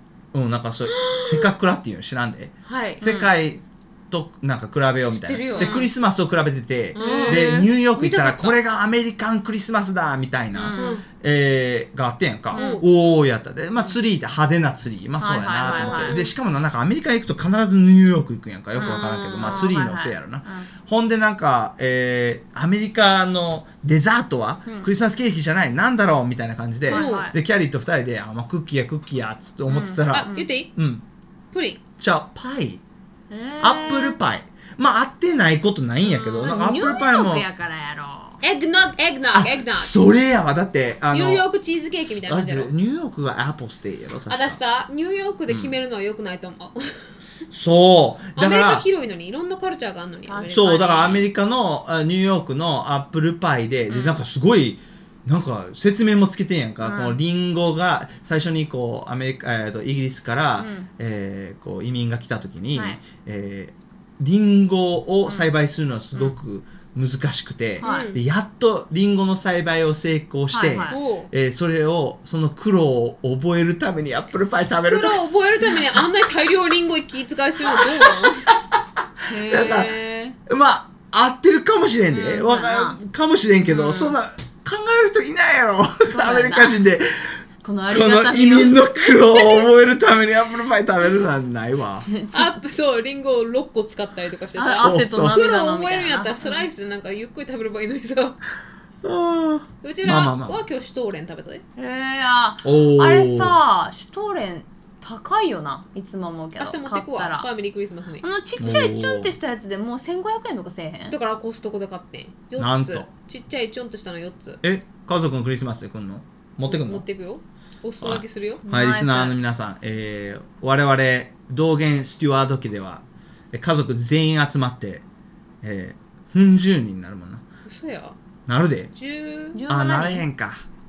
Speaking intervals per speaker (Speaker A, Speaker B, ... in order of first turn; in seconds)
Speaker A: 0.3-31.0, 32.0-32.8, 33.6-37.5, 39.3-41.5, 42.3-44.6, 45.5-45.7, 47.5-48.9, 50.5-75.2, 79.3-80.0, 80.5-92.1, 94.8-95.4, 99.0-100.6, 102.6-103.6, 108.6-109.3, 112.6-113.1, 114.6-117.0, 118.0-125.0, 125.6-127.4, 128.5-128.9, 129.7-130.6
Speaker B: 0.9-1.5, 2.7-3.0, 5.1-5.8, 7.0-8.6, 10.8-11.1, 12.6-12.9, 15.7-16.3, 18.8-19.7, 26.9-27.3, 30.1-30.7, 31.5-31.8, 36.0-37.0, 38.4-39.9, 41.1-42.7, 44.3-47.1, 48.4-51.2, 53.9-54.2, 67.8-68.2, 70.9-71.3, 74.9-78.5, 92.3-98.4, 99.8-101.6, 106.6-108.2, 111.1-114.6, 116.6-118.6, 127.7-128.2, 129.0-129.6
Speaker C: 3.0-3.3, 5.6-5.9, 7.0-7.7, 10.5-11.0, 12.5-12.8, 15.2-16.2, 18.8-20.7, 26.9-27.4, 29.7-30.5, 33.3-34.2, 36.4-38.4, 50.3-51.3, 56.8-57.2, 60.6-60.9, 62.7-63.0, 67.8-68.1, 70.5-71.0, 79.3-80.4, 82.1-83.0, 83.8-84.1, 86.0-86.8, 87.6-88.9, 92.0-92.7, 94.6-96.7, 101.8-107.5, 108.2-111.2, 118.7-119.4, 129.5-130.2